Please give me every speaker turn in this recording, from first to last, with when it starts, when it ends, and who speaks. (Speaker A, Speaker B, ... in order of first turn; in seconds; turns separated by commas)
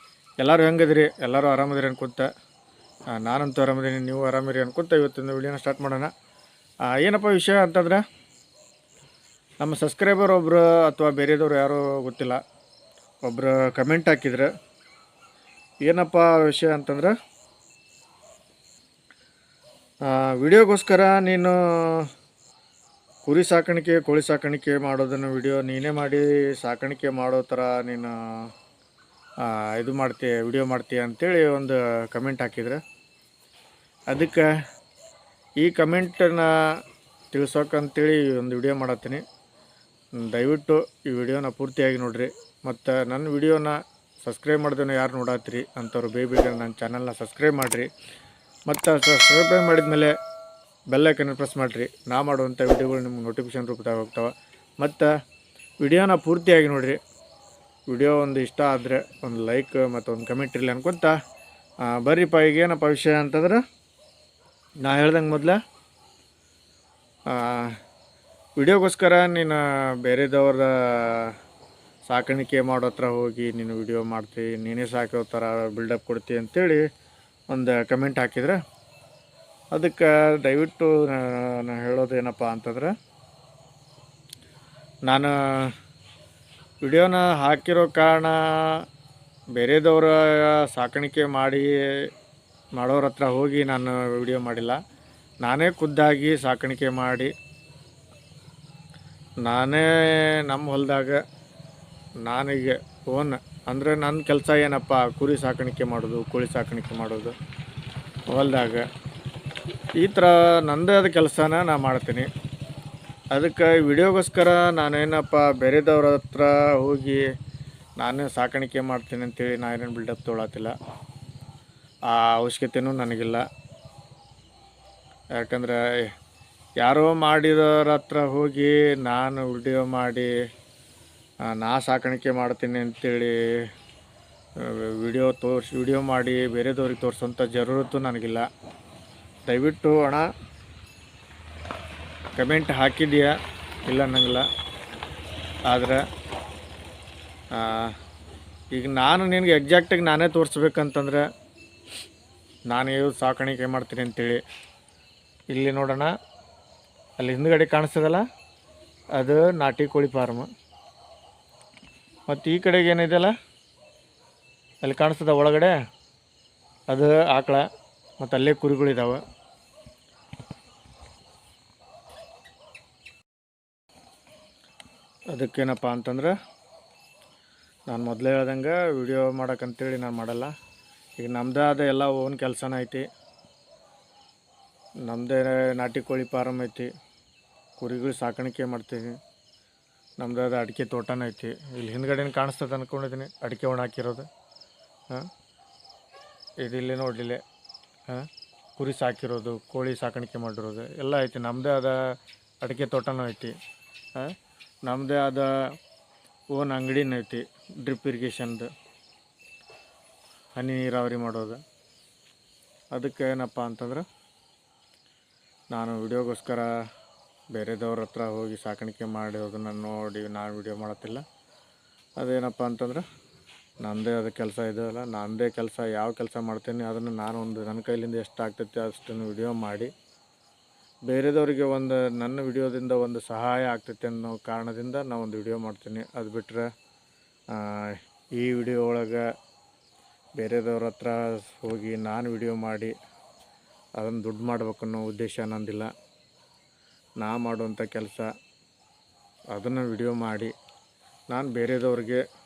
Speaker A: 0.4-2.3, Speaker A: 3.1-6.1, Speaker A: 6.9-8.0, Speaker A: 9.6-12.4, Speaker A: 13.2-14.5, Speaker A: 15.8-17.1, Speaker A: 20.1-22.1, Speaker A: 23.3-28.5, Speaker A: 29.4-32.8, Speaker A: 34.1-34.5, Speaker A: 35.6-36.8, Speaker A: 37.3-39.2, Speaker A: 40.2-47.9, Speaker A: 48.7-50.1, Speaker A: 50.9-55.1, Speaker A: 55.8-57.0, Speaker A: 57.9-61.1, Speaker A: 61.8-63.6, Speaker A: 64.8-65.6, Speaker A: 67.3-67.8, Speaker A: 68.6-71.4, Speaker A: 72.1-76.8, Speaker A: 77.5-78.6, Speaker A: 79.7-82.9, Speaker A: 85.1-85.7, Speaker A: 86.8-88.8, Speaker A: 89.6-92.1, Speaker A: 92.8-94.8, Speaker A: 95.4-97.3, Speaker A: 99.4-101.2, Speaker A: 102.2-107.3, Speaker A: 108.3-108.9, Speaker A: 110.0-112.3, Speaker A: 113.3-117.2, Speaker A: 118.0-120.7, Speaker A: 122.1-123.4, Speaker A: 125.4-126.1, Speaker A: 126.8-130.3, Speaker A: 131.5-133.7, Speaker A: 134.6-138.5, Speaker A: 139.5-140.3, Speaker A: 142.4-143.4, Speaker A: 143.9-144.5, Speaker A: 145.7-146.0, Speaker A: 147.5-147.9, Speaker A: 148.7-151.3, Speaker A: 152.7-154.4, Speaker A: 155.5-156.1, Speaker A: 157.2-158.2, Speaker A: 159.2-160.5, Speaker A: 162.3-163.3, Speaker A: 164.8-165.8, Speaker A: 166.9-167.7, Speaker A: 168.2-169.2, Speaker A: 175.3-176.3, Speaker A: 177.9-180.5, Speaker A: 181.2-183.1, Speaker A: 185.1-186.9, Speaker A: 187.8-189.2, Speaker A: 190.2-194.3, Speaker A: 196.6-197.4, Speaker A: 198.1-203.5, Speaker A: 204.9-205.5, Speaker A: 206.5-208.7, Speaker A: 210.6-211.6, Speaker A: 212.9-214.1, Speaker A: 215.7-216.7, Speaker A: 217.5-221.2, Speaker A: 222.2-223.1, Speaker A: 223.8-229.9, Speaker A: 231.1-236.7, Speaker A: 237.5-239.3, Speaker A: 240.4-242.9, Speaker A: 244.0-245.9, Speaker A: 247.2-248.3, Speaker A: 249.5-250.5, Speaker A: 251.3-252.2